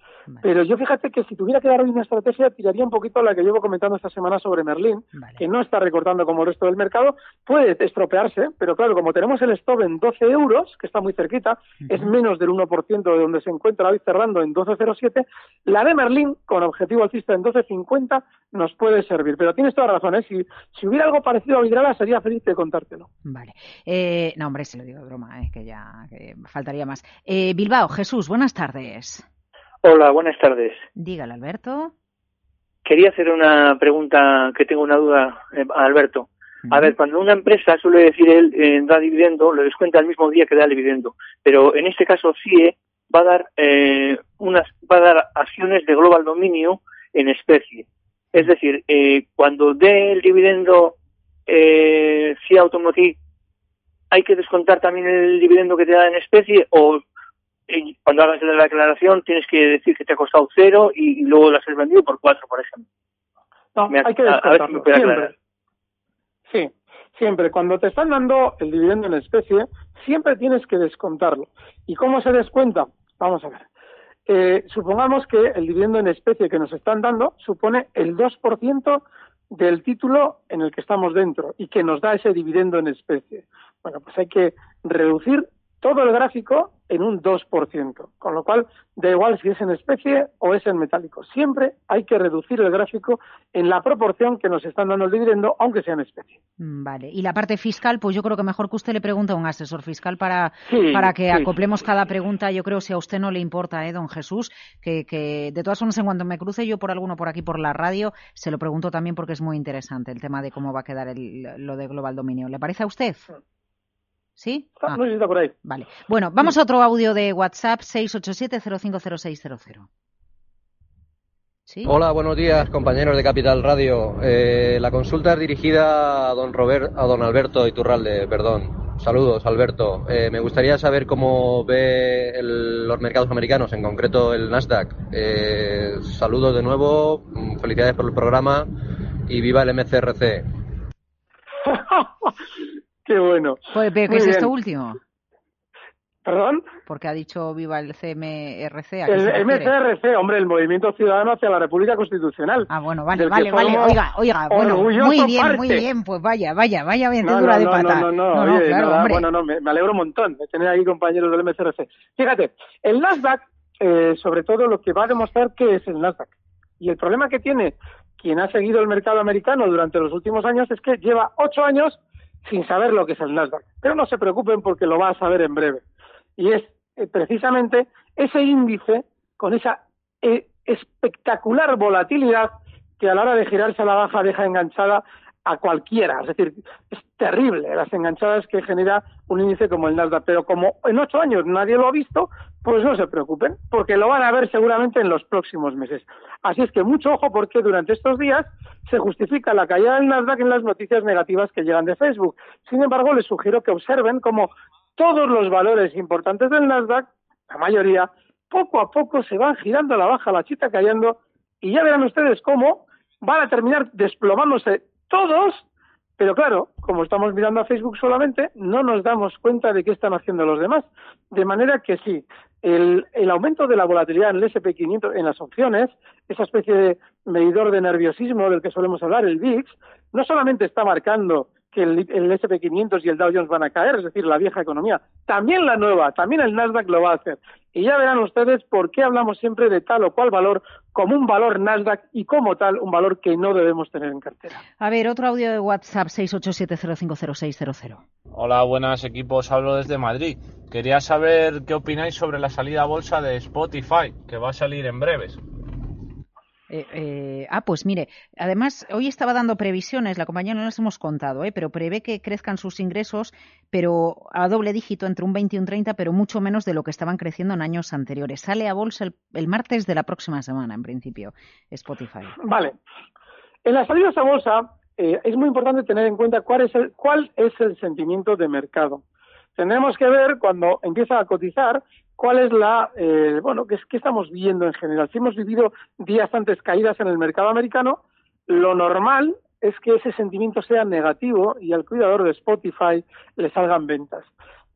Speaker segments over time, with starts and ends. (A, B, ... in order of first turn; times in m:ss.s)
0:00.4-0:23.1 A
0:05.2-0:05.4 B
0:23.2-0:29.2 B
0:29.8-0:30.8 C
0:31.0-0:31.9 B
0:32.8-0:50.9 C
0:36.6-0:36.9 B
0:51.5-0:53.2 C
0:54.1-0:57.0 C
0:57.7-1:02.8 C
1:03.7-1:05.3 A
1:03.9-1:05.3 C
1:06.5-1:13.6 A
1:14.3-1:36.4 A
1:36.6-1:53.3 B
1:40.6-1:41.5 A
1:54.4-1:55.0 B
1:54.8-1:55.5 A
1:55.6-1:59.9 B
2:01.7-2:01.9 B
2:01.8-2:18.7 D
2:19.3-2:20.4 D
2:21.6-2:22.3 A
2:23.0-2:24.5 A
2:23.7-2:25.0 B
2:26.2-2:26.6 A
2:26.8-2:29.7 B
2:29.1-2:34.0 A
2:32.7-2:39.2 B
2:34.5-2:35.8 A
2:37.2-2:55.8 A
2:56.4-3:35.6 A
3:36.2-4:04.6 A
4:04.8-4:08.0 B
4:08.3-4:15.4 E
4:16.7-4:32.3 B
4:32.4-4:32.7 A
4:33.6-4:39.0 A
4:39.6-4:54.3 A